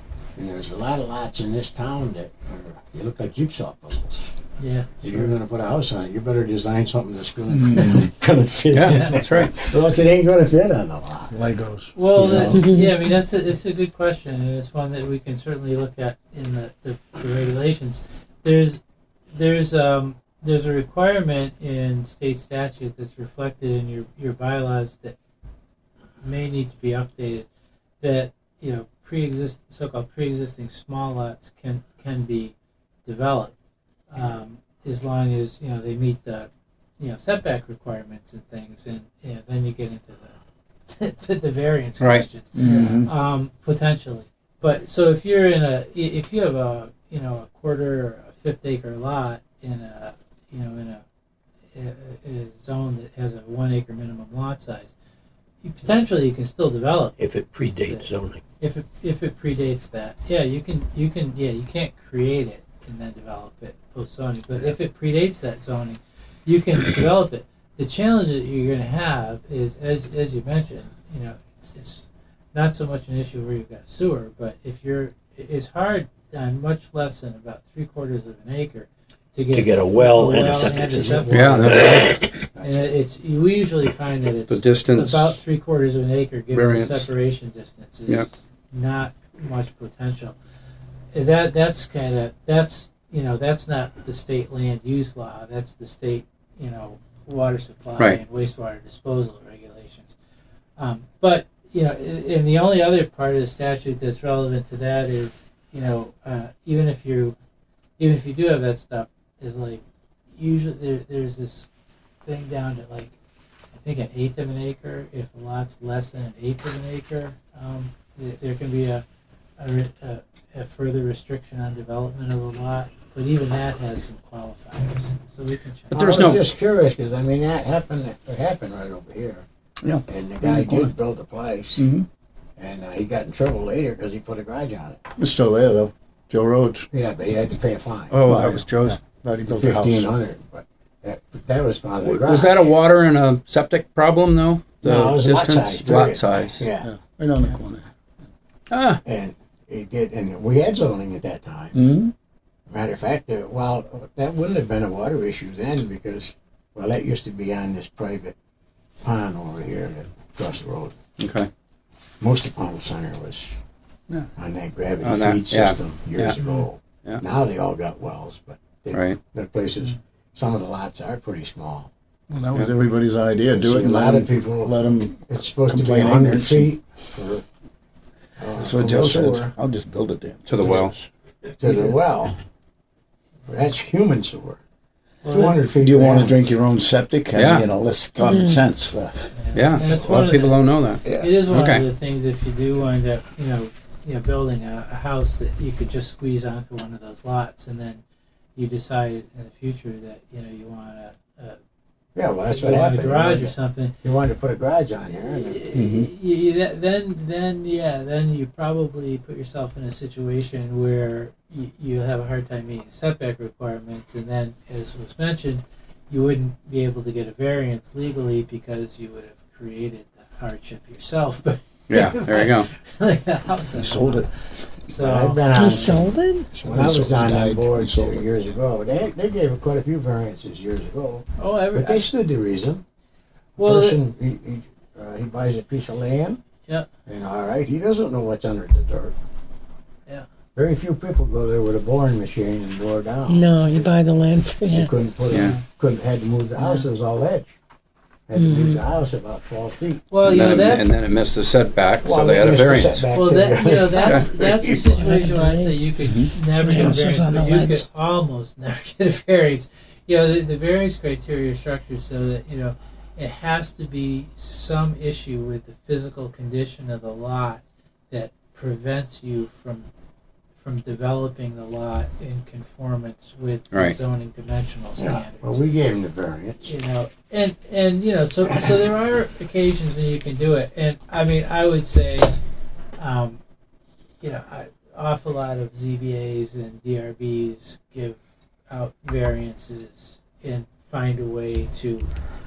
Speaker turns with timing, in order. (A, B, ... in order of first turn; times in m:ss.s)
0:00.4-0:04.3 A
0:04.6-0:05.0 B
0:05.0-0:11.4 A
0:07.5-0:08.1 C
0:08.7-0:09.6 D
0:08.9-0:09.2 B
0:11.3-0:11.9 C
0:12.0-0:18.8 B
0:12.2-0:12.6 A
0:12.5-0:13.0 E
0:19.3-0:25.2 B
0:26.2-0:27.5 B
0:28.0-0:32.5 B
0:33.0-0:33.5 B
0:34.1-0:36.5 B
0:37.0-0:40.4 B
0:40.9-0:51.0 B
0:42.0-0:42.3 D
0:42.6-0:43.1 C
0:51.7-0:54.9 B
0:55.6-0:57.2 B
0:57.2-0:58.4 F
0:57.8-0:58.1 B
0:58.6-1:30.4 B
1:19.5-1:22.2 F
1:21.3-1:22.0 D
1:21.4-1:23.0 A
1:24.5-1:25.4 D
1:26.5-1:27.1 D
1:31.1-1:40.2 B
1:40.8-1:47.4 B
1:48.0-1:49.8 B
1:50.4-1:51.7 B
1:52.2-1:53.2 B
1:53.7-1:59.0 B
1:59.6-2:06.0 B
2:05.9-2:06.4 D
2:05.9-2:09.5 A
2:09.8-2:10.9 C
2:10.1-2:11.9 A
2:11.8-2:12.1 C
2:12.6-2:15.0 A
2:15.2-2:16.9 C
2:16.9-2:18.2 A
2:18.1-2:18.9 D
2:18.3-2:20.1 C
2:19.4-2:22.7 A
2:22.0-2:26.7 D
2:24.8-2:26.9 A
2:26.8-2:27.9 C
2:28.7-2:29.0 D
2:29.0-2:31.9 A
2:31.8-2:32.1 C
2:32.7-2:38.4 A
2:39.0-2:41.0 A
2:41.2-2:41.5 D
2:42.2-2:43.6 A
2:44.4-2:51.9 A
2:45.0-2:46.4 D
2:46.4-2:46.7 B
2:48.9-2:49.2 D
2:52.3-2:56.7 C
2:53.5-2:57.5 A
2:58.4-2:59.5 A
2:58.6-3:01.1 C
3:00.5-3:00.9 D
3:01.6-3:02.4 A
3:01.6-3:02.0 C
3:03.5-3:04.6 A
3:05.2-3:05.7 B
3:05.3-3:06.4 A
3:05.8-3:09.3 C
3:07.4-3:07.7 D
3:08.2-3:08.6 E
3:09.3-3:18.0 B
3:09.5-3:11.9 D
3:18.6-3:21.6 B
3:22.2-3:25.6 A
3:22.5-3:24.0 B
3:25.4-3:44.3 B
3:25.7-3:26.1 C
3:41.9-3:42.7 D
3:43.7-3:44.3 C
3:44.8-3:46.1 B
3:44.9-3:52.8 A
3:45.5-3:46.5 E
3:46.5-3:48.4 C
3:51.4-3:52.1 B
3:53.6-3:54.0 B
3:53.6-3:56.4 A
3:57.1-3:59.2 A
4:00.6-4:04.0 A
4:03.3-4:04.9 E
4:04.6-4:07.6 A
4:05.3-4:05.6 D
4:05.3-4:05.6 B
4:08.3-4:10.0 A
4:08.3-4:08.8 E
4:10.1-4:11.0 B
4:10.2-4:13.1 D
4:12.0-4:15.2 A
4:13.1-4:29.9 B
4:14.0-4:14.3 D
4:15.0-4:15.9 E
4:16.0-4:16.3 C
4:16.6-4:17.8 E
4:30.6-4:35.6 B
4:35.0-4:36.7 A
4:36.6-4:42.4 B
4:43.0-4:43.4 B
4:44.2-4:48.2 B
4:48.7-4:52.1 B